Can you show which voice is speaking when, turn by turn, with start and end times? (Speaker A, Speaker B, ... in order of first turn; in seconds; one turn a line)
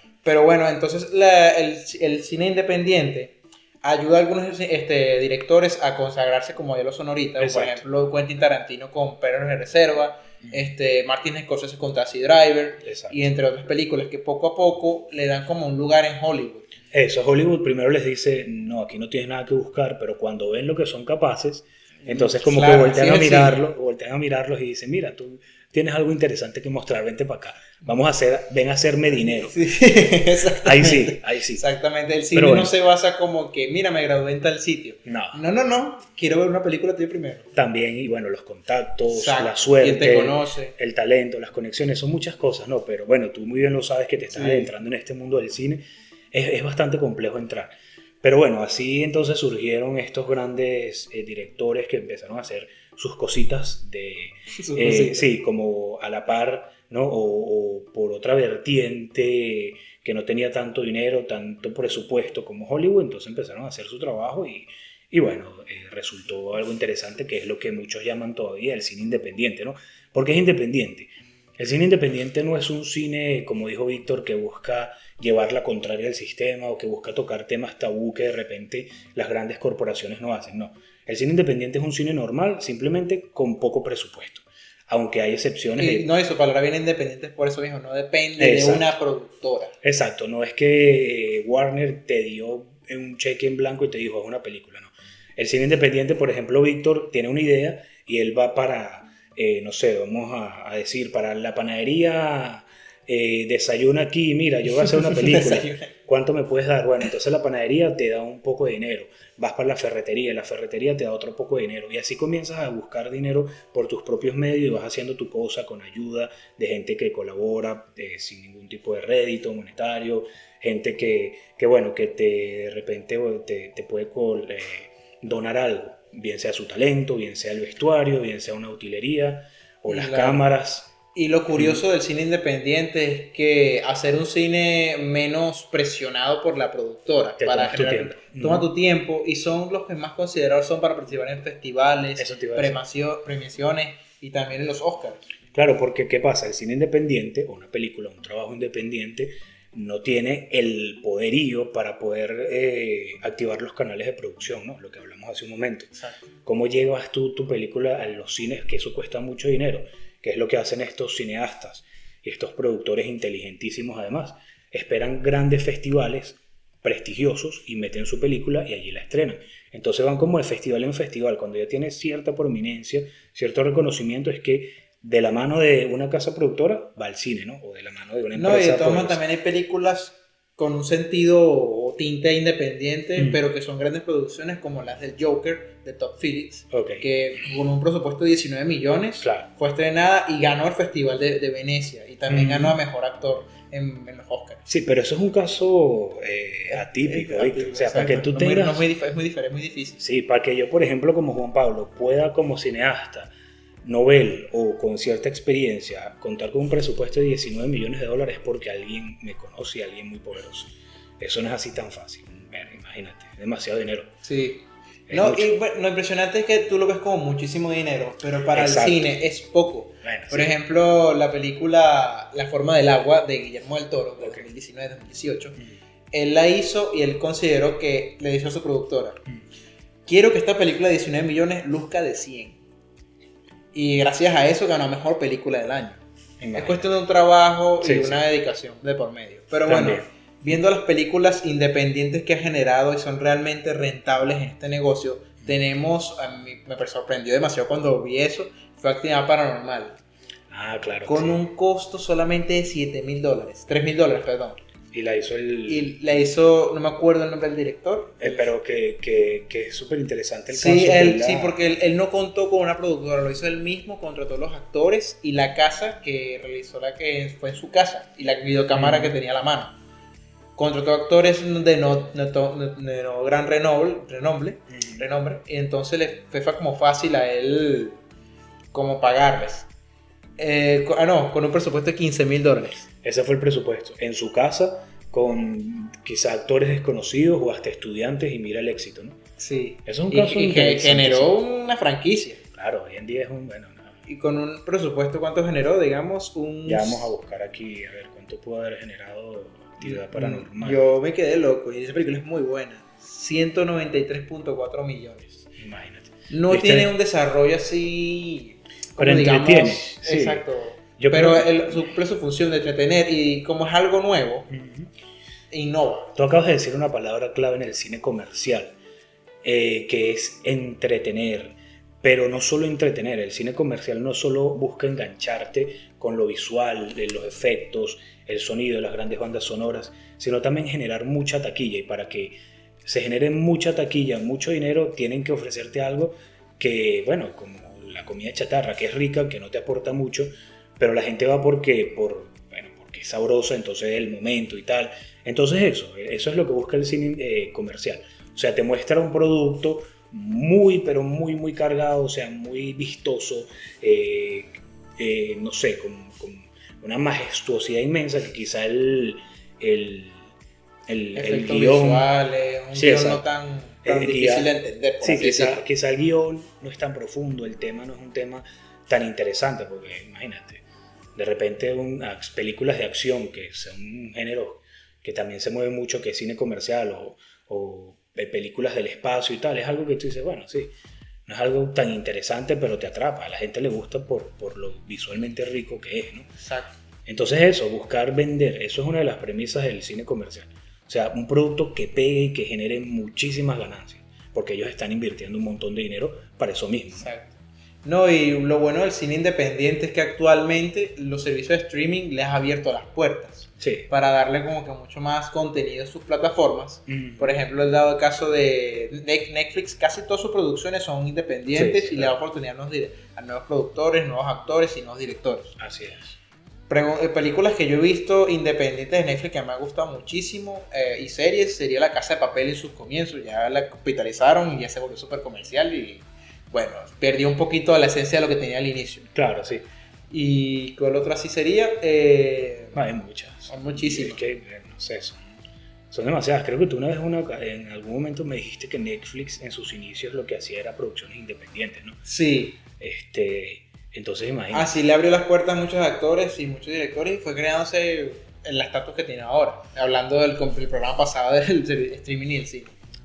Speaker A: 0.2-16.7
Speaker B: 7.4-7.8
Speaker B: 12.8-13.2
Speaker B: 16.9-29.6
Speaker A: 22.0-23.6
Speaker A: 29.3-37.5
Speaker B: 30.6-31.6
Speaker B: 32.3-32.7
Speaker B: 35.0-35.4
Speaker B: 37.5-47.7
Speaker A: 39.1-40.7
Speaker A: 44.3-44.7
Speaker B: 48.2-86.1
Speaker A: 54.5-55.3
Speaker A: 85.8-89.7
Speaker B: 88.4-88.9
Speaker B: 89.8-130.9
Speaker A: 105.1-105.9
Speaker A: 129.9-130.4
Speaker A: 131.1-145.2
Speaker B: 131.5-131.8
Speaker B: 137.4-138.7
Speaker B: 142.2-142.8
Speaker B: 145.5-155.9
Speaker A: 155.9-156.3
Speaker B: 156.4-179.2
Speaker A: 178.3-194.6
Speaker B: 186.7-187.0
Speaker B: 189.2-189.5
Speaker B: 192.3-192.8
Speaker B: 194.7-198.9
Speaker A: 196.7-200.0
Speaker B: 200.0-203.3
Speaker B: 203.8-214.1
Speaker A: 214.2-225.6
Speaker B: 215.1-215.5
Speaker B: 218.4-219.2
Speaker B: 220.0-220.5
Speaker A: 226.1-229.2
Speaker A: 230.1-232.6
Speaker A: 233.7-236.0
Speaker B: 236.4-236.9
Speaker A: 236.5-250.0
Speaker B: 237.8-238.2
Speaker B: 239.7-240.1
Speaker B: 250.5-251.4
Speaker A: 251.1-254.6
Speaker B: 254.9-256.0
Speaker A: 255.7-258.5
Speaker B: 258.2-261.6
Speaker A: 260.5-269.8
Speaker B: 268.7-269.1
Speaker A: 270.6-278.0
Speaker B: 274.7-275.0
Speaker A: 278.7-279.7
Speaker A: 280.4-282.9
Speaker B: 283.0-289.2
Speaker A: 289.4-292.4
Speaker B: 289.9-291.4
Speaker B: 292.5-293.9
Speaker A: 294.1-297.1
Speaker B: 296.6-300.8
Speaker A: 299.8-305.4
Speaker B: 305.6-306.9
Speaker A: 306.3-314.5
Speaker B: 309.0-310.4
Speaker B: 311.0-311.8
Speaker B: 314.5-314.9
Speaker A: 315.5-316.1
Speaker B: 316.1-318.7
Speaker B: 319.4-360.3
Speaker B: 360.9-362.1
Speaker A: 361.1-365.6
Speaker B: 362.7-363.2
Speaker B: 363.8-370.6
Speaker B: 371.1-380.7
Speaker B: 381.3-386.3
Speaker A: 386.4-386.7
Speaker B: 387.1-397.1
Speaker A: 396.9-415.5
Speaker B: 403.6-403.9
Speaker B: 406.9-407.4
Speaker B: 411.5-412.1
Speaker B: 415.6-416.2
Speaker A: 416.7-429.1
Speaker B: 429.1-429.6
Speaker A: 430.1-432.8
Speaker B: 432.7-435.2
Speaker A: 433.5-434.2
Speaker B: 435.9-442.0
Speaker A: 442.1-442.6
Speaker B: 442.8-444.7
Speaker A: 444.5-452.7